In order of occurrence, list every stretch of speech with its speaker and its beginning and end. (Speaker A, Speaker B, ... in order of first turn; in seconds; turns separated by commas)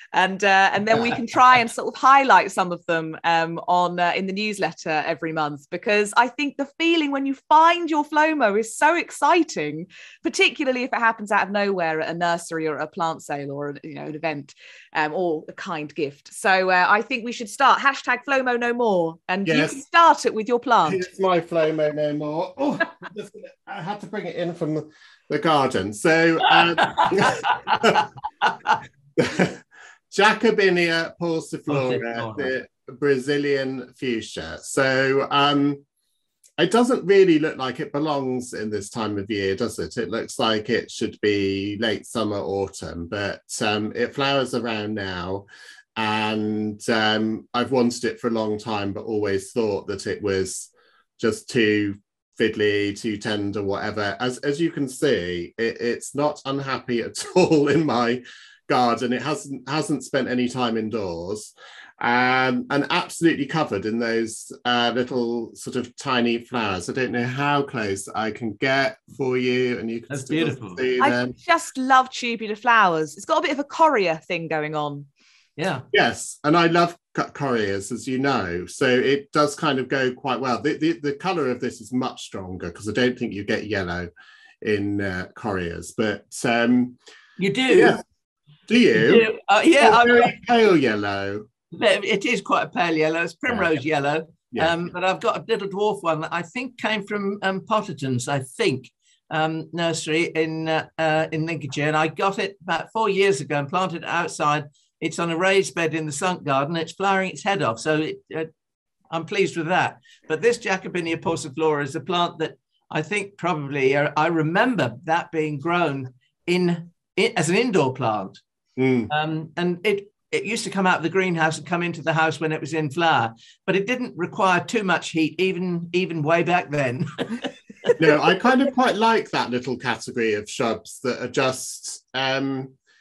Speaker A: 0.1-21.0, Speaker B: 19.4-19.8, Speaker B: 20.9-28.1, Speaker C: 26.8-27.9, Speaker C: 28.5-28.7, Speaker B: 29.2-35.8, Speaker C: 31.7-32.5, Speaker B: 36.6-45.5, Speaker B: 46.0-71.3, Speaker C: 70.1-70.8, Speaker A: 71.0-75.1, Speaker C: 75.6-75.8, Speaker B: 75.9-84.1, Speaker B: 84.6-87.0, Speaker C: 87.4-88.0, Speaker B: 87.7-88.0, Speaker B: 88.7-89.2, Speaker C: 88.9-90.3, Speaker B: 89.8-91.5, Speaker C: 91.7-108.5, Speaker B: 94.5-94.8, Speaker C: 109.1-118.4, Speaker B: 118.8-119.1, Speaker C: 119.1-128.0, Speaker B: 128.0-132.7